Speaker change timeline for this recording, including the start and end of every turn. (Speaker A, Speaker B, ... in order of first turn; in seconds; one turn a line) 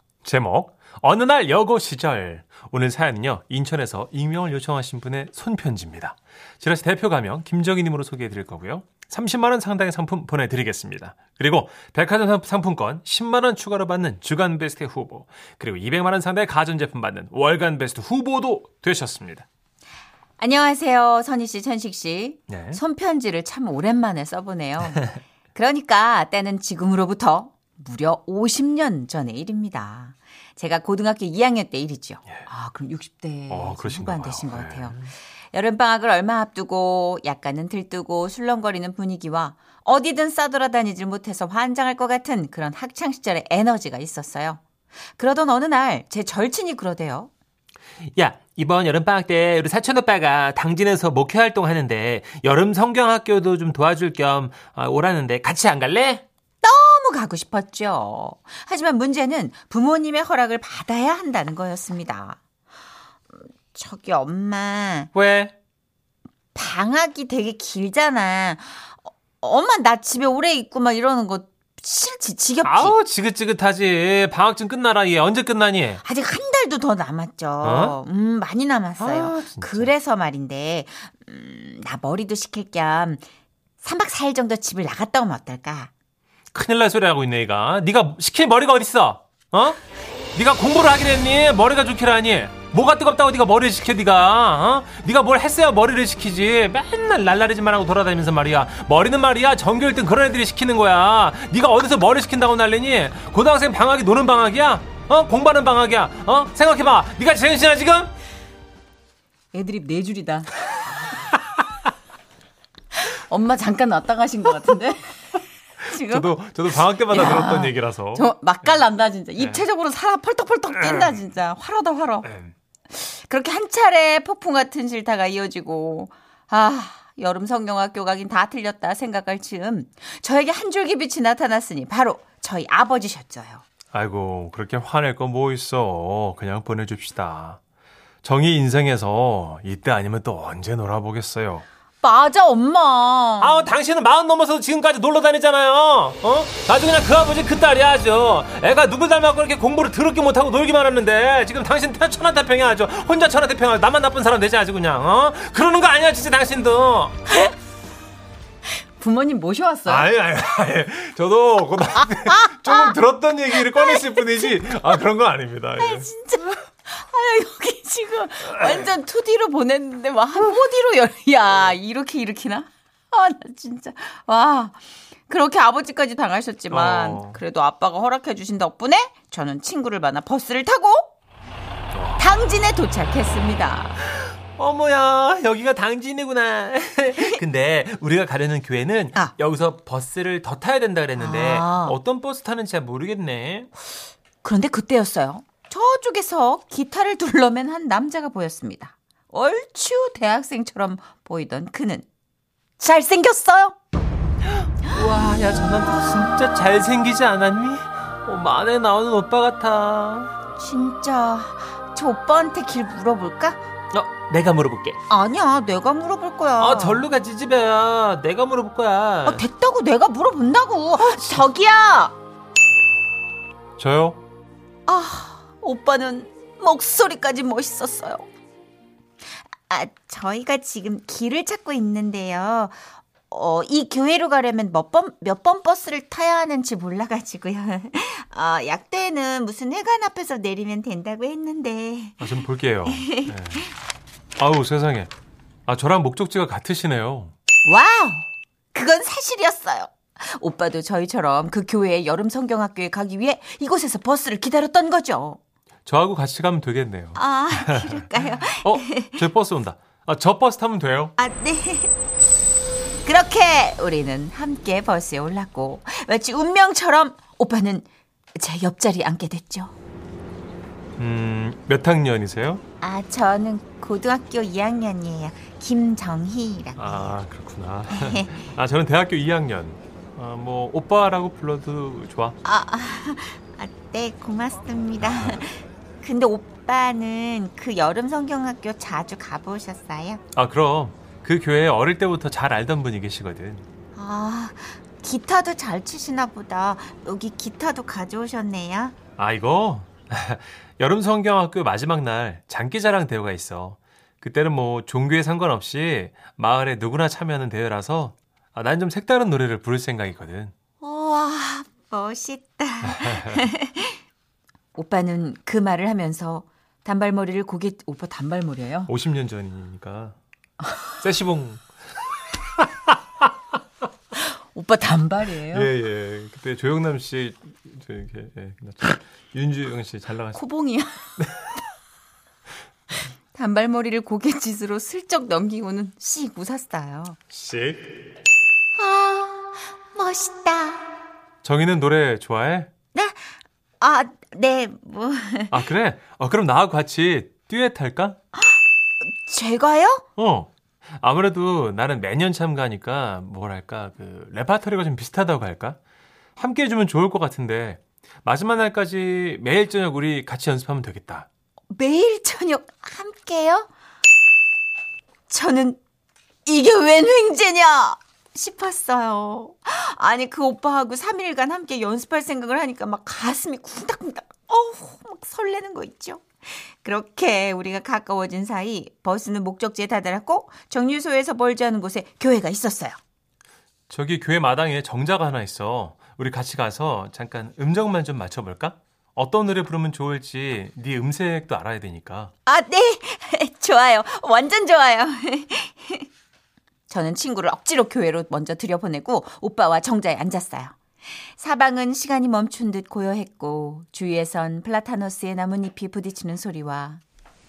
Speaker A: 0.2-19.4
Speaker B: 20.4-44.6
Speaker A: 22.5-22.8
Speaker A: 33.5-35.1
Speaker B: 45.1-47.3
Speaker A: 48.0-56.2
Speaker B: 56.6-62.4
Speaker B: 63.7-65.1
Speaker A: 65.1-65.5
Speaker B: 66.5-73.0
Speaker A: 72.6-76.0
Speaker B: 76.0-83.2
Speaker A: 77.6-78.0
Speaker A: 79.0-79.9
Speaker B: 83.8-85.9
Speaker A: 86.5-89.8
Speaker A: 90.3-108.1
Speaker B: 109.5-110.7
Speaker B: 113.0-116.3
Speaker A: 115.9-118.8
Speaker B: 117.1-122.3
Speaker A: 119.4-119.6
Speaker A: 120.7-121.2
Speaker A: 122.2-122.5
Speaker B: 122.9-133.6
Speaker A: 133.9-137.6
Speaker A: 138.2-141.6
Speaker B: 142.0-143.7
Speaker A: 143.4-157.1
Speaker B: 159.0-160.1
Speaker A: 159.8-166.1
Speaker B: 162.1-163.0
Speaker B: 163.6-164.7
Speaker B: 165.8-181.1
Speaker A: 176.7-177.4
Speaker A: 181.9-182.3
Speaker B: 182.2-184.0
Speaker A: 184.1-193.7
Speaker B: 191.2-192.0
Speaker B: 194.4-202.0
Speaker B: 202.8-203.8
Speaker A: 204.6-210.3
Speaker B: 210.6-213.6
Speaker A: 213.9-215.0
Speaker B: 215.1-217.0
Speaker A: 216.6-219.4
Speaker B: 219.2-222.1
Speaker A: 223.8-224.2
Speaker B: 224.9-228.2
Speaker B: 229.6-243.6
Speaker A: 242.2-243.7
Speaker A: 244.4-245.1
Speaker A: 245.7-247.3
Speaker B: 247.6-255.4
Speaker A: 255.8-261.1
Speaker B: 257.1-259.2
Speaker B: 261.2-261.9
Speaker B: 263.0-269.7
Speaker A: 271.0-272.6
Speaker B: 272.8-277.1
Speaker A: 276.8-282.4
Speaker B: 277.9-278.4
Speaker B: 282.4-290.2
Speaker A: 285.0-285.4
Speaker A: 290.3-293.6
Speaker B: 293.9-298.9
Speaker A: 299.2-310.5
Speaker B: 310.8-314.0
Speaker A: 313.0-313.4
Speaker B: 314.7-318.9
Speaker A: 318.9-320.1
Speaker A: 321.0-321.6
Speaker A: 322.6-323.0
Speaker B: 324.1-325.7
Speaker A: 325.5-330.4
Speaker B: 330.3-331.0
Speaker B: 333.3-337.2
Speaker A: 337.3-337.9
Speaker B: 338.7-340.8
Speaker A: 341.4-342.7
Speaker B: 342.9-345.6
Speaker A: 345.5-348.2
Speaker B: 348.4-350.0
Speaker A: 350.2-355.8
Speaker A: 356.4-361.3
Speaker B: 361.7-363.7
Speaker B: 365.3-365.8
Speaker B: 366.4-383.0
Speaker A: 383.9-392.3
Speaker B: 392.4-396.1
Speaker B: 396.9-407.0